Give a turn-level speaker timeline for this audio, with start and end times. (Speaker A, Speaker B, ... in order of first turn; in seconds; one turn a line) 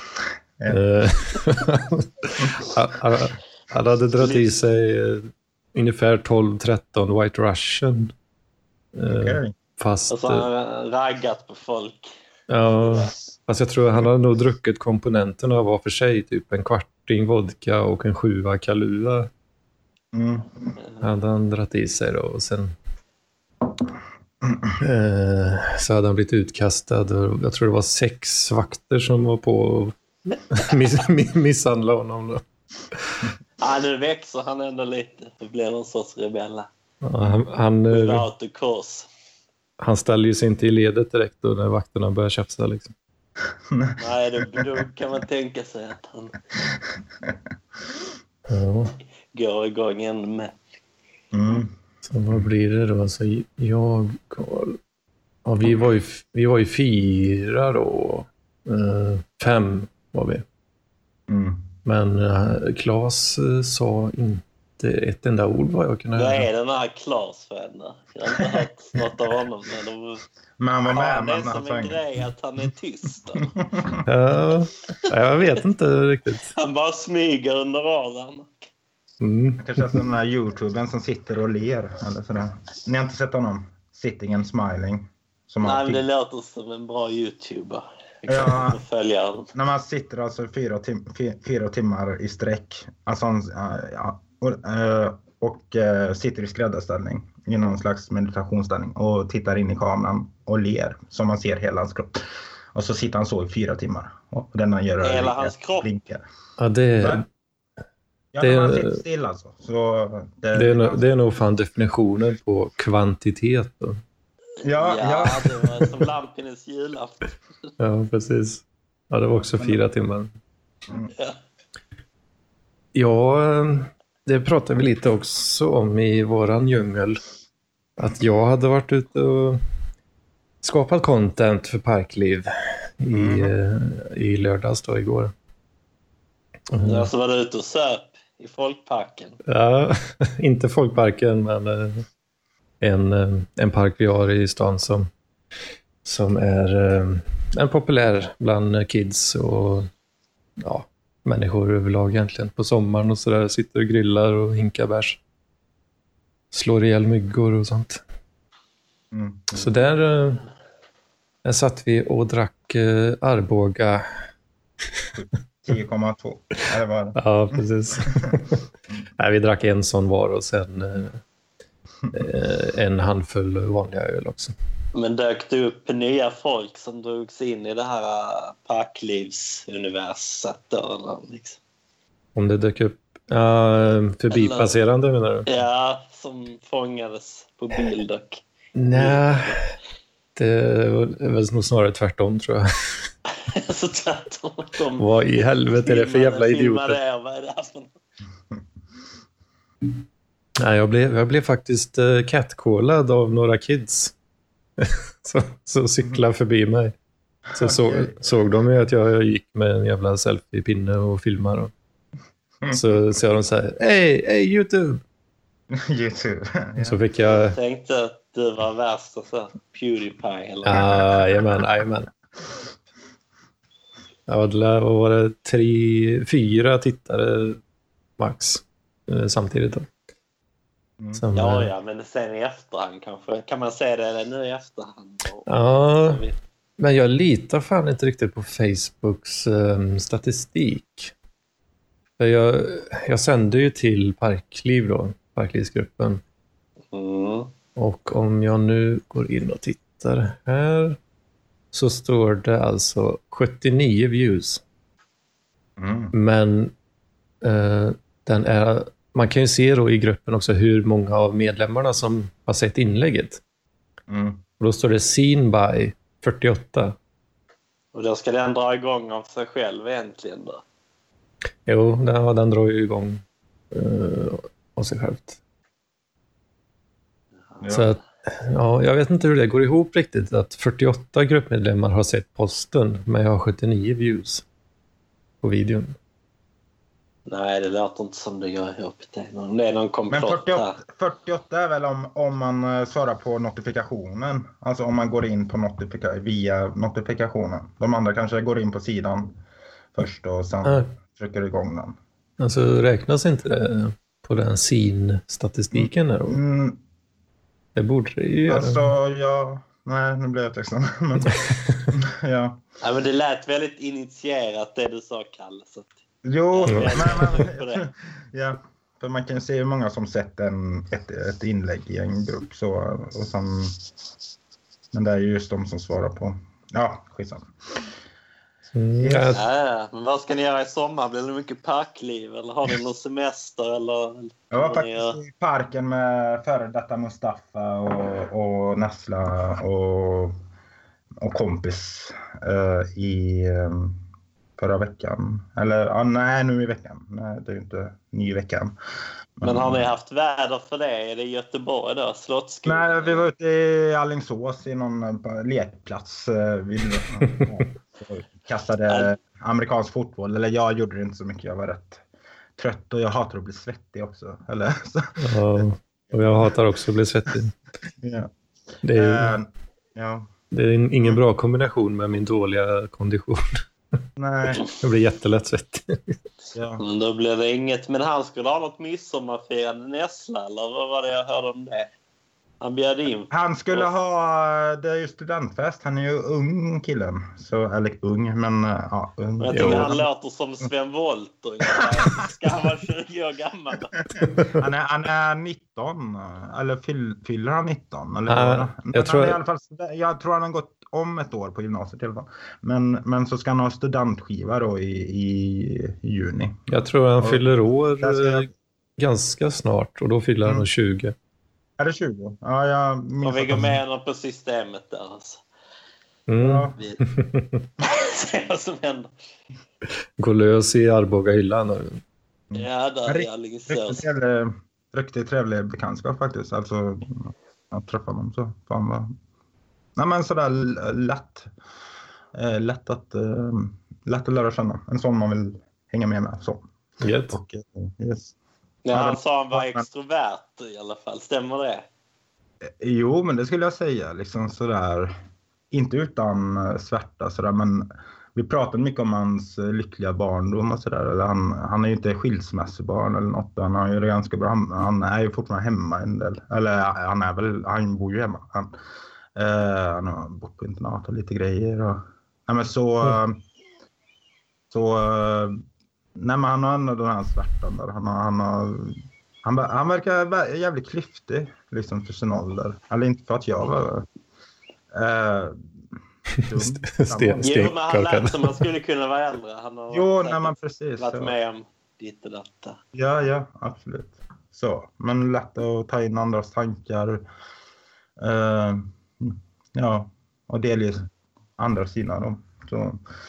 Speaker A: 0.7-8.1
Speaker B: 4.2-4.5
Speaker A: 8.9-10.5
Speaker C: 9.1-9.5
Speaker B: 10.1-12.1
Speaker A: 12.5-19.3
Speaker B: 12.8-13.1
Speaker C: 20.1-20.7
Speaker A: 21.0-22.7
Speaker A: 24.8-32.4
Speaker B: 33.6-36.7
Speaker A: 37.0-38.3
Speaker B: 37.9-39.1
Speaker A: 39.8-42.9
Speaker C: 43.7-44.7
Speaker B: 44.0-46.4
Speaker C: 46.6-47.4
Speaker A: 48.5-49.0
Speaker B: 49.3-50.5
Speaker C: 51.3-51.7
Speaker A: 52.1-54.8
Speaker A: 55.5-60.5
Speaker C: 61.3-61.7
Speaker A: 61.9-66.5
Speaker B: 66.2-70.2
Speaker C: 70.6-72.0
Speaker B: 70.9-73.5
Speaker C: 73.4-74.0
Speaker A: 74.1-76.5
Speaker B: 76.5-78.7
Speaker A: 79.2-80.0
Speaker C: 79.6-86.0
Speaker B: 85.6-89.5
Speaker C: 88.3-88.8
Speaker C: 89.5-102.2
Speaker C: 102.7-106.2
Speaker B: 105.0-105.9
Speaker A: 106.6-107.3
Speaker C: 108.3-111.0
Speaker A: 108.4-109.0
Speaker A: 110.5-114.0
Speaker B: 114.6-117.3
Speaker C: 114.6-115.5
Speaker A: 117.8-120.3
Speaker C: 119.4-119.8
Speaker A: 123.0-127.2
Speaker A: 128.0-129.6
Speaker A: 130.6-132.5
Speaker A: 133.0-135.3
Speaker C: 133.1-133.5
Speaker A: 136.7-137.1
Speaker B: 136.8-139.4
Speaker A: 139.5-142.0
Speaker A: 142.8-145.1
Speaker A: 146.1-149.9
Speaker A: 150.6-155.2
Speaker A: 156.5-158.0
Speaker C: 159.1-159.7
Speaker A: 159.5-160.4
Speaker A: 161.4-164.0
Speaker C: 165.2-168.3
Speaker A: 167.2-168.7
Speaker A: 169.2-171.2
Speaker A: 172.1-174.5
Speaker B: 174.9-181.6
Speaker A: 182.3-185.5
Speaker B: 184.3-184.8
Speaker B: 185.5-189.6
Speaker A: 188.8-189.7
Speaker A: 190.4-192.7
Speaker B: 193.4-195.1
Speaker A: 195.0-197.0
Speaker B: 195.7-197.9
Speaker A: 200.6-204.1
Speaker A: 204.8-206.9
Speaker C: 207.5-208.2
Speaker A: 207.5-211.7
Speaker A: 212.7-215.0
Speaker C: 215.7-217.0
Speaker A: 216.8-217.6
Speaker B: 217.2-221.1
Speaker A: 220.7-222.1
Speaker C: 220.8-221.0
Speaker A: 224.3-227.6
Speaker A: 228.2-229.9
Speaker A: 231.2-231.7
Speaker B: 231.3-236.4
Speaker A: 235.5-236.2
Speaker A: 236.8-241.1
Speaker A: 242.2-246.2
Speaker B: 246.9-247.5
Speaker A: 247.8-251.0
Speaker A: 251.7-254.6
Speaker C: 255.8-256.1
Speaker A: 256.1-256.7
Speaker A: 257.4-263.4
Speaker C: 264.1-264.4
Speaker A: 264.6-267.0
Speaker B: 267.9-270.6
Speaker A: 271.7-273.2
Speaker A: 273.7-275.4
Speaker C: 277.6-277.9
Speaker A: 277.7-284.4
Speaker A: 285.4-286.0
Speaker B: 287.3-290.8
Speaker C: 290.1-299.4
Speaker C: 299.9-302.0
Speaker A: 302.4-306.4
Speaker C: 305.7-306.8
Speaker A: 307.8-308.9
Speaker C: 308.5-312.6
Speaker A: 311.2-311.9
Speaker B: 312.8-316.0
Speaker C: 316.2-323.8
Speaker B: 316.5-317.8
Speaker A: 316.7-317.2
Speaker C: 324.9-327.9
Speaker A: 328.7-329.4
Speaker C: 329.0-329.4
Speaker B: 329.3-335.2
Speaker C: 334.5-340.3
Speaker C: 341.2-344.0
Speaker C: 344.6-348.8
Speaker C: 349.4-349.9
Speaker B: 349.4-353.3
Speaker C: 352.6-362.0
Speaker A: 357.2-357.5
Speaker C: 362.6-366.6
Speaker A: 365.2-367.5
Speaker C: 368.0-368.3
Speaker A: 368.8-369.4
Speaker C: 368.9-370.3
Speaker A: 370.5-373.6
Speaker C: 374.2-374.6
Speaker A: 374.5-376.2
Speaker C: 376.6-376.8
Speaker B: 376.8-381.9
Speaker B: 382.6-383.9
Speaker C: 383.3-390.1
Speaker B: 389.4-394.0
Speaker A: 389.6-390.0
Speaker C: 394.0-408.5
Speaker A: 394.2-394.5
Speaker A: 398.3-399.4
Speaker A: 406.7-411.1
Speaker C: 411.8-413.8
Speaker B: 413.2-415.4
Speaker A: 416.3-417.7
Speaker C: 416.4-416.8
Speaker B: 417.8-419.1
Speaker A: 420.2-422.0
Speaker C: 422.5-429.1
Speaker B: 422.6-424.1
Speaker C: 430.0-431.5
Speaker C: 432.3-436.6
Speaker A: 437.0-437.4
Speaker C: 437.3-438.3
Speaker B: 438.9-441.9
Speaker C: 438.9-439.9
Speaker C: 442.8-445.1
Speaker C: 445.7-458.8
Speaker C: 459.4-463.4
Speaker C: 464.7-465.6
Speaker C: 466.2-474.1
Speaker C: 474.9-475.6
Speaker C: 476.4-477.7
Speaker A: 476.5-478.7
Speaker B: 477.4-482.8
Speaker C: 479.9-481.3
Speaker C: 482.9-487.2
Speaker C: 488.2-493.0